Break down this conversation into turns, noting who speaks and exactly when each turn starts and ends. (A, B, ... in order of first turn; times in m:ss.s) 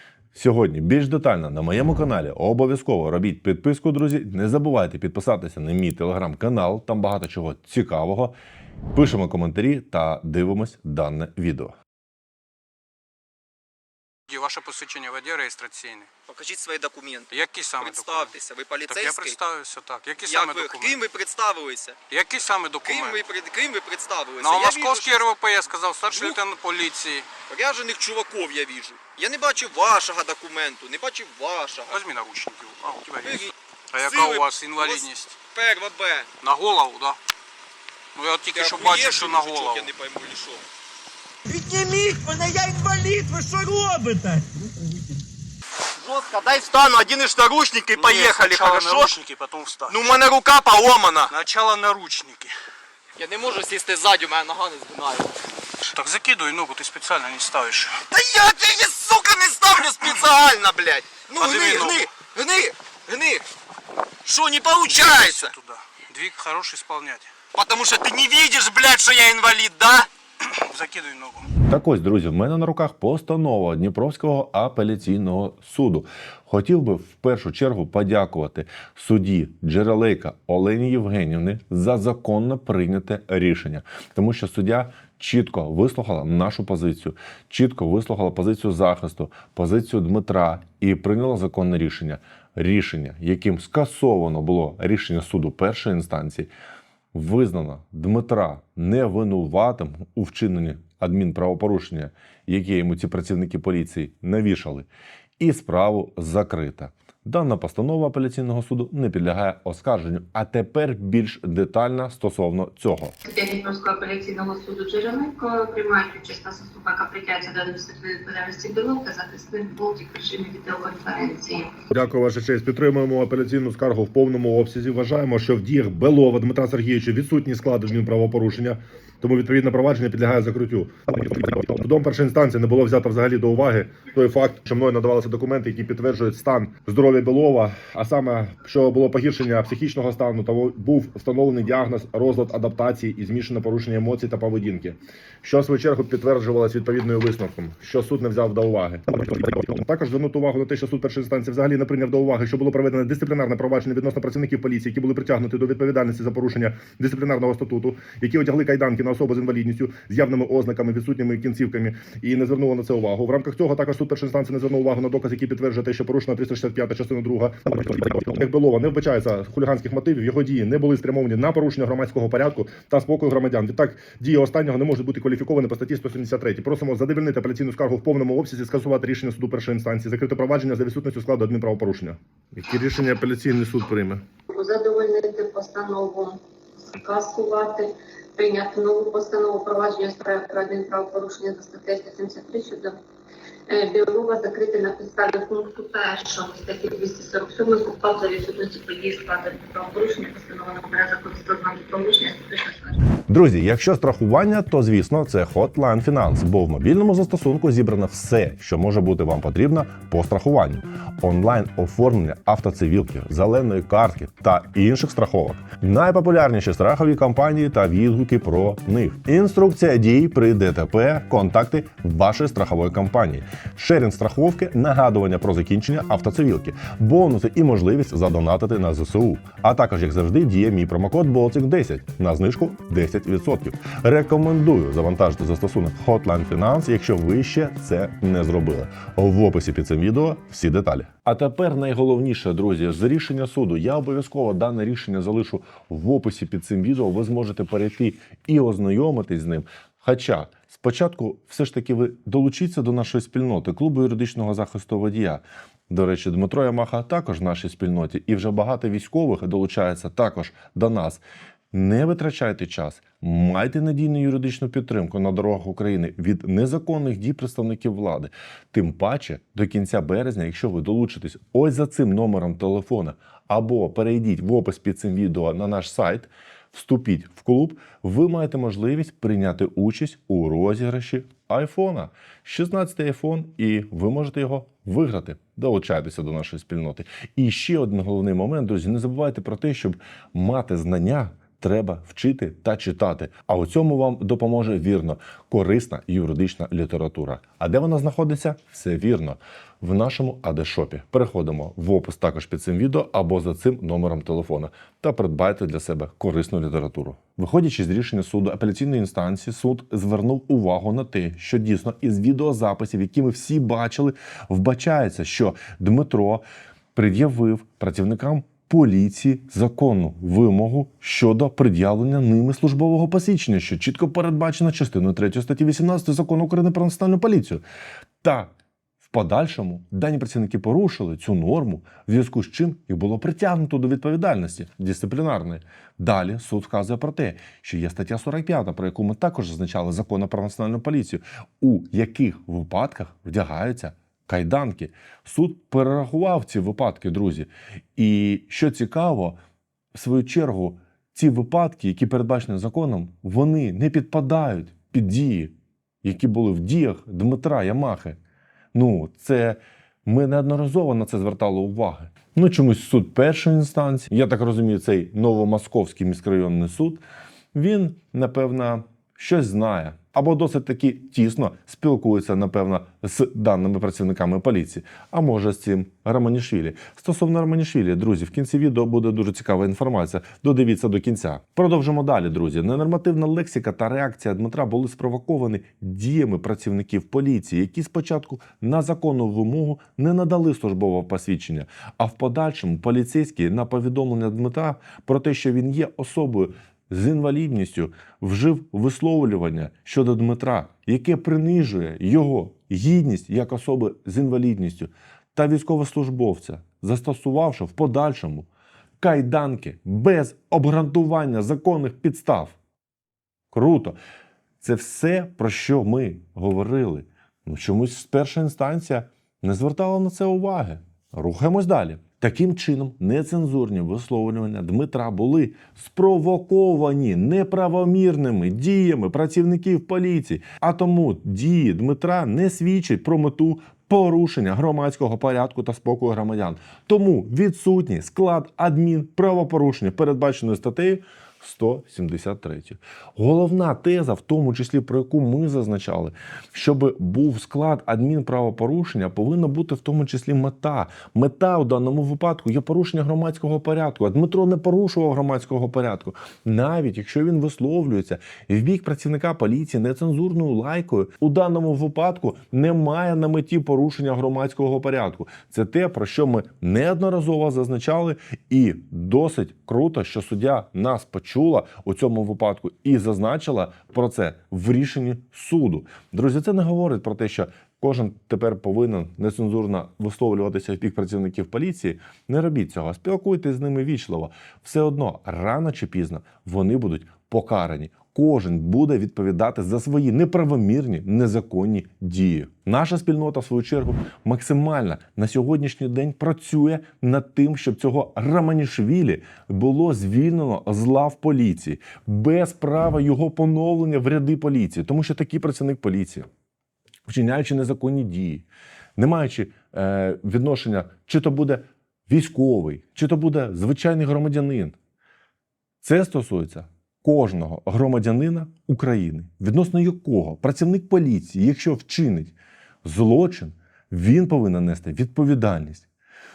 0:00.3-0:08.4 A
0:08.9-0:11.7 A
0:14.3-0:16.1 B
0:16.3-0:17.3 C
0:17.3-0:21.1 B
0:17.8-0:19.3 C
0:20.3-0:22.0 C
0:22.1-0:23.3 B
0:22.8-0:25.0 C
0:24.4-0:27.3 B
0:27.5-0:31.9 C
0:31.8-0:35.4 B
0:34.0-0:36.3 C
0:36.4-0:37.2 B
0:38.1-0:39.9 B
0:38.5-0:40.6 C
0:41.6-0:44.4 D
0:43.5-0:43.8 A
0:46.0-0:49.1 C
0:47.8-0:50.1 B
0:50.0-0:51.3 C
0:51.2-0:52.5 B
0:53.2-0:55.3 C
0:55.9-0:58.0 B
0:58.1-1:03.4 C
1:01.3-1:02.1 B
1:04.2-1:05.5 C
1:04.8-1:07.3 B
1:07.5-1:10.1 C
1:10.4-1:11.5 B
1:11.6-1:36.5 A
1:37.1-1:44.9 A
1:45.4-1:53.2 A
1:53.2-2:01.8 E
2:01.9-2:24.9 A
2:25.4-3:04.2 A
3:04.5-3:13.0 E
3:13.7-3:23.0 E
3:23.3-5:16.4 A
5:16.9-5:27.6 A
5:28.2-5:28.5 A
5:29.0-5:49.4 A
5:49.9-5:58.2 A
5:58.7-6:07.0 A
6:07.5-6:48.5 A
6:49.0-6:52.6 A
6:53.5-6:54.0 A
6:54.6-8:26.3 A
8:27.0-8:28.4 A
8:29.0-8:34.8 A
8:35.8-8:45.9 A